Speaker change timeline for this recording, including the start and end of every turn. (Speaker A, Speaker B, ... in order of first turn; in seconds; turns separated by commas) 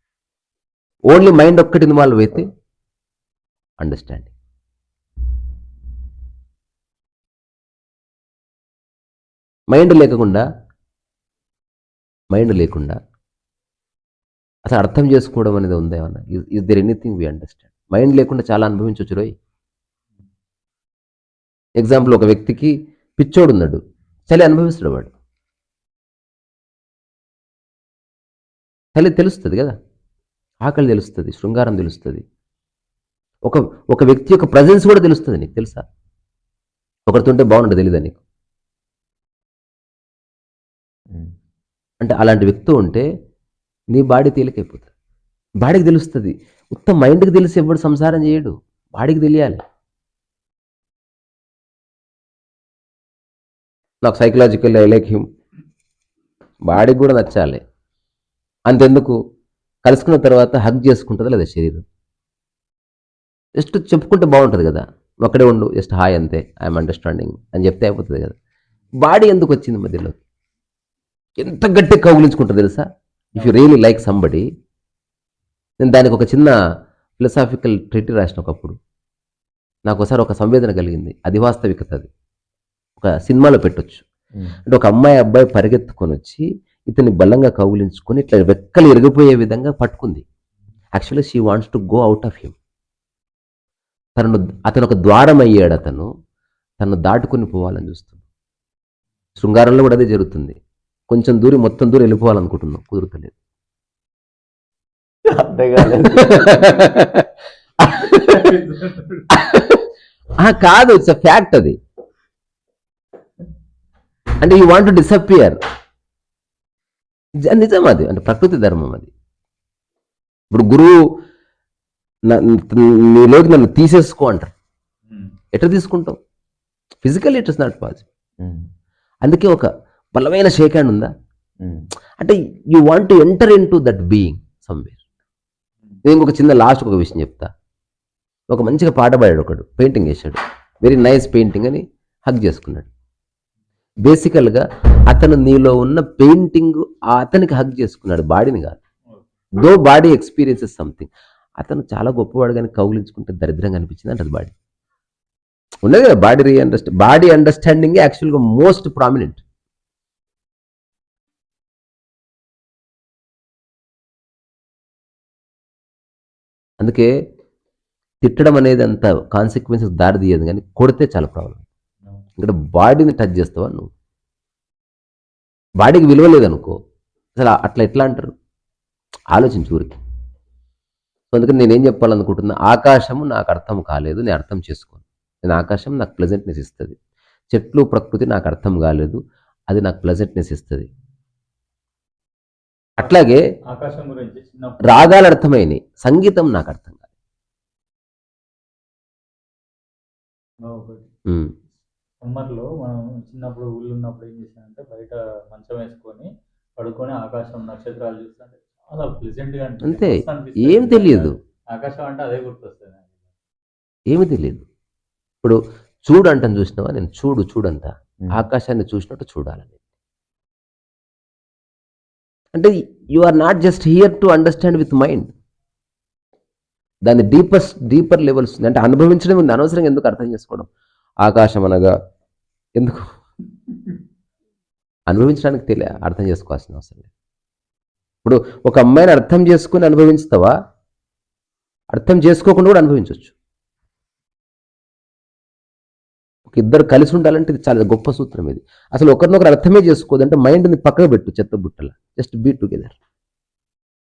Speaker A: 1.1-2.5, Speaker A: 3.8-4.3, Speaker A: 9.7-10.4, Speaker A: 12.3-13.0, Speaker A: 14.6-19.3, Speaker A: 21.8-25.1, Speaker A: 28.9-29.8, Speaker A: 30.6-32.2, Speaker A: 33.4-35.8, Speaker A: 37.1-38.2, Speaker B: 41.1-41.3, Speaker A: 42.0-43.0, Speaker A: 43.9-44.9, Speaker A: 45.6-49.6, Speaker A: 54.0-55.3, Speaker A: 56.6-57.6, Speaker A: 58.7-59.2, Speaker A: 59.8-61.8, Speaker A: 63.5-68.3, Speaker A: 69.0-70.2, Speaker A: 71.4-74.4, Speaker A: 75.8-76.5, Speaker A: 77.2-78.8, Speaker A: 79.8-82.1, Speaker A: 83.0-84.0, Speaker A: 84.7-90.2, Speaker A: 90.9-92.5, Speaker A: 94.2-96.1, Speaker A: 96.8-98.2, Speaker A: 99.4-100.6, Speaker A: 101.1-103.3, Speaker B: 105.3-106.9, Speaker A: 106.0-107.3, Speaker A: 107.8-108.5, Speaker C: 108.1-109.3, Speaker A: 109.3-109.8, Speaker A: 110.4-111.8, Speaker A: 114.4-115.6, Speaker A: 117.5-119.1, Speaker A: 120.5-121.0, Speaker A: 122.3-124.5, Speaker C: 125.1-125.3, Speaker A: 125.5-126.2, Speaker A: 127.0-128.0, Speaker B: 128.4-128.7, Speaker A: 129.2-131.1, Speaker B: 131.6-131.9, Speaker A: 132.2-135.0, Speaker A: 136.0-137.5, Speaker A: 138.5-142.9, Speaker A: 144.0-148.8, Speaker A: 149.5-154.5, Speaker A: 155.8-159.4, Speaker A: 166.8-167.1, Speaker A: 168.2-171.6, Speaker A: 172.4-173.9, Speaker A: 175.8-176.8, Speaker A: 177.4-178.3, Speaker A: 179.3-180.0, Speaker A: 181.3-187.0, Speaker A: 187.5-190.9, Speaker A: 193.0-193.4, Speaker C: 193.7-195.0, Speaker A: 194.9-197.0, Speaker C: 200.6-201.1, Speaker A: 201.3-201.5, Speaker C: 202.2-213.1, Speaker A: 209.8-211.3, Speaker A: 214.1-214.7, Speaker A: 215.4-219.7, Speaker A: 222.5-225.3, Speaker A: 227.0-230.7, Speaker A: 231.2-231.9, Speaker A: 232.8-233.1, Speaker A: 235.1-237.1, Speaker A: 238.2-240.5, Speaker A: 241.9-243.3, Speaker A: 246.5-252.9